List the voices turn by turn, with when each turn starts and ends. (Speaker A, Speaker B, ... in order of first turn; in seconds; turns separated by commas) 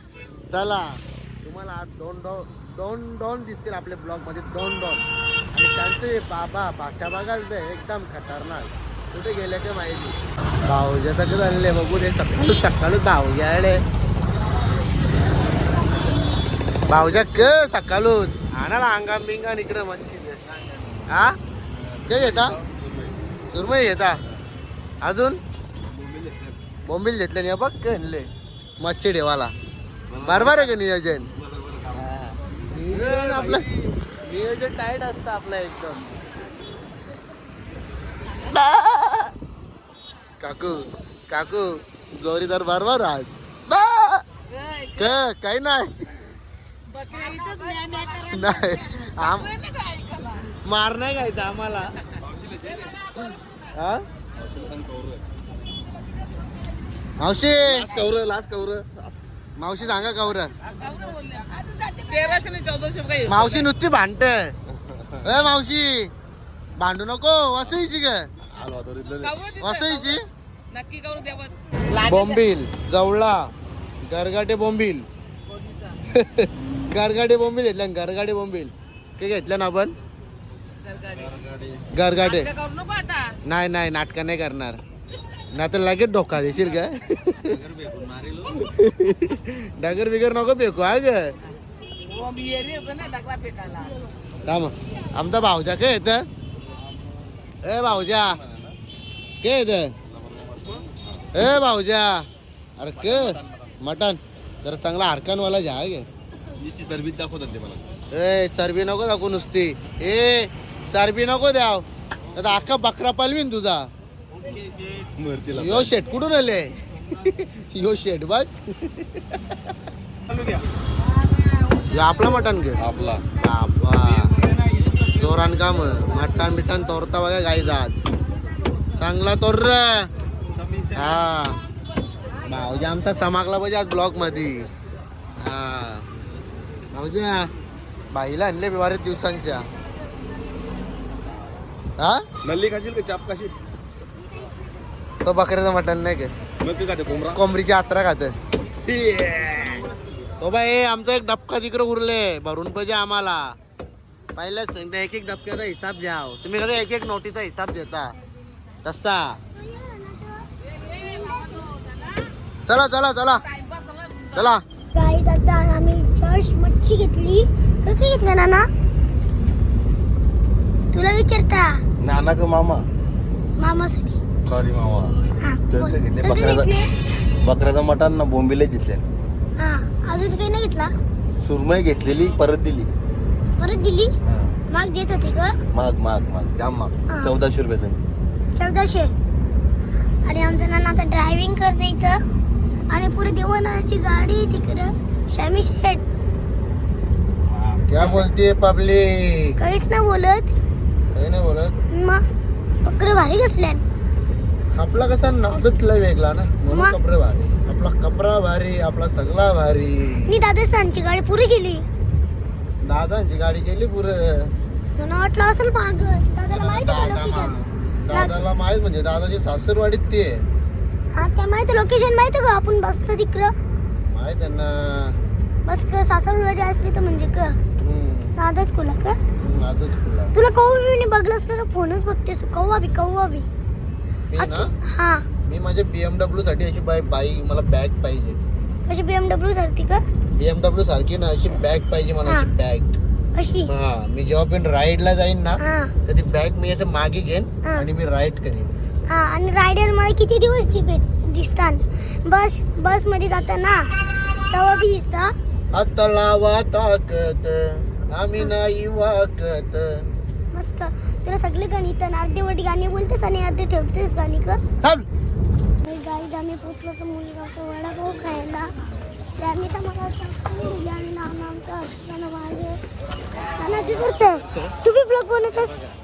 Speaker A: 0.5-13.8, Speaker A: 16.9-20.4, Speaker A: 21.1-21.4, Speaker B: 21.7-23.2, Speaker A: 22.1-22.6, Speaker A: 23.5-24.2, Speaker A: 25.0-25.4, Speaker B: 25.8-26.6, Speaker A: 26.9-28.3, Speaker A: 28.8-29.5, Speaker B: 30.1-30.8, Speaker A: 30.2-31.3, Speaker B: 31.4-32.0, Speaker A: 31.9-33.7, Speaker B: 32.9-34.1, Speaker A: 34.3-36.1, Speaker A: 38.5-39.3, Speaker A: 40.4-44.2, Speaker C: 44.5-45.2, Speaker A: 45.0-46.1, Speaker C: 46.9-50.5, Speaker A: 48.3-49.5, Speaker A: 50.6-51.9, Speaker B: 52.2-53.3, Speaker A: 53.8-54.0, Speaker B: 54.4-55.3, Speaker A: 57.2-57.9, Speaker B: 57.6-59.2, Speaker A: 59.6-60.5, Speaker C: 60.7-63.7, Speaker A: 63.3-64.5, Speaker B: 64.7-65.2, Speaker A: 65.2-66.1, Speaker A: 66.8-68.3, Speaker B: 68.5-69.4, Speaker C: 69.2-70.2, Speaker A: 69.6-70.2, Speaker C: 70.7-72.4, Speaker A: 72.0-73.5, Speaker A: 74.0-75.0, Speaker C: 75.5-76.0, Speaker A: 76.1-80.0, Speaker C: 80.8-81.3, Speaker B: 81.2-81.8, Speaker A: 81.9-82.5, Speaker C: 82.2-83.3, Speaker A: 83.5-84.8, Speaker A: 85.5-87.6, Speaker B: 87.5-88.6, Speaker A: 88.6-91.3, Speaker C: 92.0-93.9, Speaker A: 94.5-96.3, Speaker A: 97.6-98.4, Speaker B: 97.9-98.8, Speaker A: 99.4-99.9, Speaker B: 100.0-101.2, Speaker A: 101.3-102.3, Speaker A: 102.8-106.1, Speaker B: 103.0-103.7, Speaker B: 106.6-107.8, Speaker A: 108.1-113.9, Speaker B: 115.2-115.9, Speaker A: 115.5-119.6, Speaker A: 121.9-122.8, Speaker B: 122.8-123.2, Speaker A: 123.4-124.3, Speaker A: 125.2-128.1, Speaker A: 128.9-130.1, Speaker A: 130.9-131.6, Speaker A: 132.4-134.7, Speaker A: 135.4-136.1, Speaker A: 136.9-137.5, Speaker A: 138.1-139.7, Speaker A: 142.0-142.2, Speaker B: 142.4-143.6, Speaker A: 145.2-146.3, Speaker B: 146.6-147.4, Speaker A: 147.3-148.3, Speaker B: 148.9-149.9, Speaker A: 150.4-153.6, Speaker A: 154.3-158.1, Speaker A: 158.8-159.4, Speaker D: 159.6-160.5, Speaker D: 161.0-161.5, Speaker C: 161.3-161.9, Speaker A: 162.7-163.4, Speaker C: 163.5-164.5, Speaker A: 164.3-164.6, Speaker D: 164.9-168.7, Speaker D: 170.9-171.7, Speaker B: 172.0-172.9, Speaker D: 173.6-174.2, Speaker B: 174.5-175.2, Speaker D: 175.4-176.9, Speaker B: 175.7-176.7, Speaker B: 177.4-179.1, Speaker D: 179.6-180.9, Speaker B: 181.4-182.9, Speaker D: 183.6-184.1, Speaker B: 184.3-184.5, Speaker D: 184.7-185.5, Speaker B: 185.7-188.0, Speaker D: 187.1-187.3, Speaker D: 188.6-189.1, Speaker D: 190.3-192.2, Speaker D: 192.9-196.1, Speaker A: 197.6-199.6, Speaker D: 198.0-198.3, Speaker D: 199.6-200.6, Speaker A: 201.1-201.7, Speaker D: 201.9-202.2, Speaker D: 202.8-203.8, Speaker A: 204.7-210.4, Speaker D: 206.7-207.0, Speaker D: 210.3-211.8, Speaker A: 212.8-214.5, Speaker D: 215.0-217.5, Speaker A: 216.5-220.4, Speaker D: 221.2-223.5, Speaker A: 224.1-225.2, Speaker D: 225.7-227.6, Speaker A: 227.8-228.3, Speaker D: 228.4-229.2, Speaker A: 229.4-230.3, Speaker D: 230.3-233.5, Speaker A: 234.3-234.7, Speaker D: 234.4-235.2, Speaker A: 235.4-238.4, Speaker D: 238.9-240.0, Speaker A: 240.4-243.0, Speaker D: 243.3-243.7, Speaker A: 243.7-248.7, Speaker D: 245.6-245.9, Speaker D: 249.1-253.9, Speaker D: 254.5-255.3, Speaker A: 255.7-260.1, Speaker D: 260.5-264.6, Speaker A: 264.8-265.1, Speaker D: 265.8-268.7, Speaker D: 269.3-272.8, Speaker D: 273.6-275.9